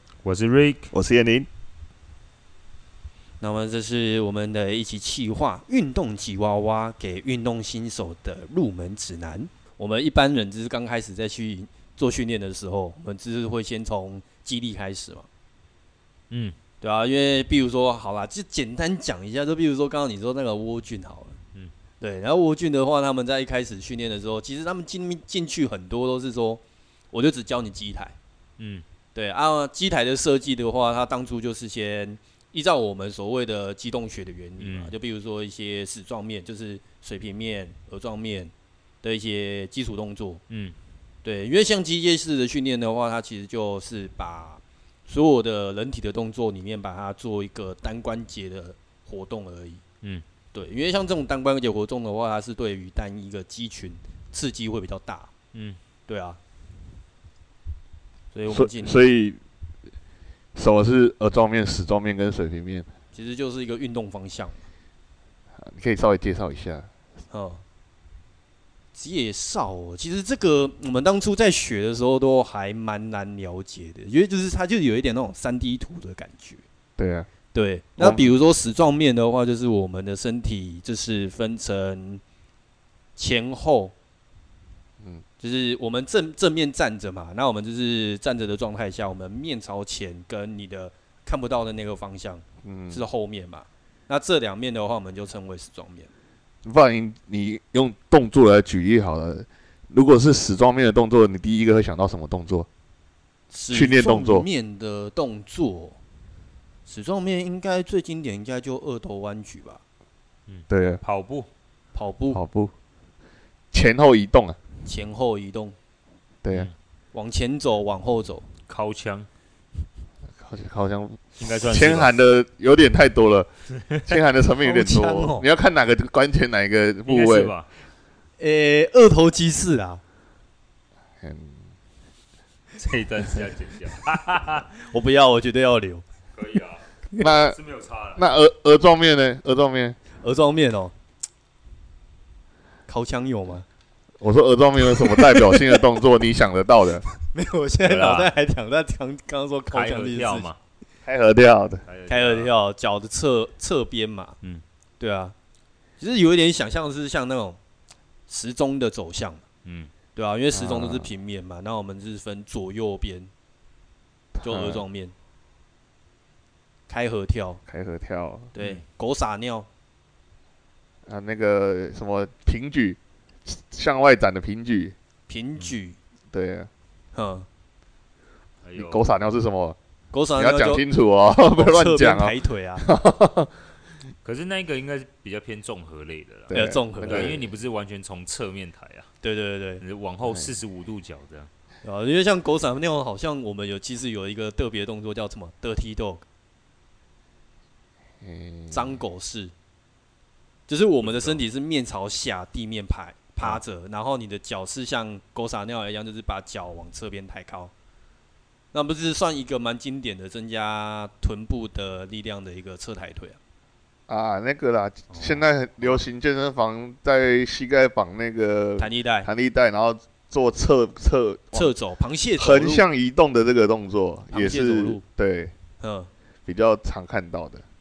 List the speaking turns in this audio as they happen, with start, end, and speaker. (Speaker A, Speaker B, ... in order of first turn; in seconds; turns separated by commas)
Speaker A: 0.2-0.9, Speaker B: 0.9-1.5, Speaker C: 3.4-15.3, Speaker A: 16.3-16.6, Speaker C: 16.8-21.4, Speaker C: 22.0-28.2, Speaker A: 28.6-28.8, Speaker C: 29.1-40.4, Speaker A: 34.6-35.0, Speaker A: 40.5-40.8, Speaker C: 41.2-49.8, Speaker C: 50.5-55.3, Speaker A: 55.5-55.8, Speaker C: 56.1-56.4, Speaker C: 58.3-59.0, Speaker B: 58.5-59.4, Speaker B: 60.5-62.9, Speaker C: 63.1-64.6, Speaker B: 65.6-66.9, Speaker C: 67.3-67.6, Speaker C: 69.0-76.6, Speaker B: 77.0-77.3, Speaker C: 77.5-82.2, Speaker B: 78.0-78.3, Speaker C: 83.2-83.9, Speaker C: 85.4-96.1, Speaker B: 92.6-93.0, Speaker B: 96.7-102.7, Speaker C: 103.5-106.0, Speaker B: 103.7-104.5, Speaker C: 106.9-109.8, Speaker A: 110.5-111.5, Speaker B: 110.7-111.0, Speaker C: 112.0-112.4, Speaker B: 112.3-112.7, Speaker B: 113.7-114.6, Speaker C: 114.8-115.8, Speaker B: 116.4-116.7, Speaker C: 117.1-118.5, Speaker A: 118.7-119.3, Speaker B: 120.4-123.5, Speaker A: 121.4-122.1, Speaker B: 124.1-127.5, Speaker C: 124.6-125.5, Speaker A: 127.1-127.7, Speaker C: 128.4-130.0, Speaker B: 131.2-131.6, Speaker A: 132.8-134.7, Speaker C: 134.8-136.0, Speaker A: 136.3-138.3, Speaker B: 137.2-137.6, Speaker B: 138.2-140.0, Speaker C: 140.2-140.9, Speaker C: 142.9-143.7, Speaker B: 144.2-147.0, Speaker C: 145.0-145.8, Speaker C: 147.3-150.5, Speaker A: 147.8-148.3, Speaker A: 149.7-150.6, Speaker B: 151.1-151.8, Speaker A: 151.9-152.5, Speaker C: 152.1-154.4, Speaker C: 155.0-155.3, Speaker C: 156.0-157.6, Speaker C: 158.3-159.4, Speaker A: 159.7-159.9, Speaker C: 160.1-163.3, Speaker B: 160.5-161.1, Speaker B: 164.3-164.8, Speaker C: 164.4-165.1, Speaker C: 166.9-167.6, Speaker B: 167.7-168.5, Speaker C: 168.5-169.7, Speaker B: 171.1-174.9, Speaker C: 175.3-176.0, Speaker B: 176.3-176.7, Speaker C: 177.2-177.5, Speaker A: 178.7-179.0, Speaker B: 178.8-179.8, Speaker C: 180.1-180.8, Speaker B: 180.4-183.5, Speaker C: 181.5-182.9, Speaker A: 184.2-189.1, Speaker B: 186.5-187.5, Speaker C: 186.5-187.4, Speaker C: 189.2-189.8, Speaker A: 189.8-191.5, Speaker C: 191.8-196.2, Speaker B: 198.2-199.0, Speaker C: 198.7-199.5, Speaker C: 200.7-207.7, Speaker A: 201.1-201.4, Speaker C: 208.7-213.4, Speaker B: 214.1-221.7, Speaker C: 215.1-216.0, Speaker C: 218.8-219.3, Speaker C: 221.5-222.8, Speaker B: 222.4-225.5, Speaker C: 224.3-225.0, Speaker C: 225.8-226.1, Speaker B: 226.5-227.6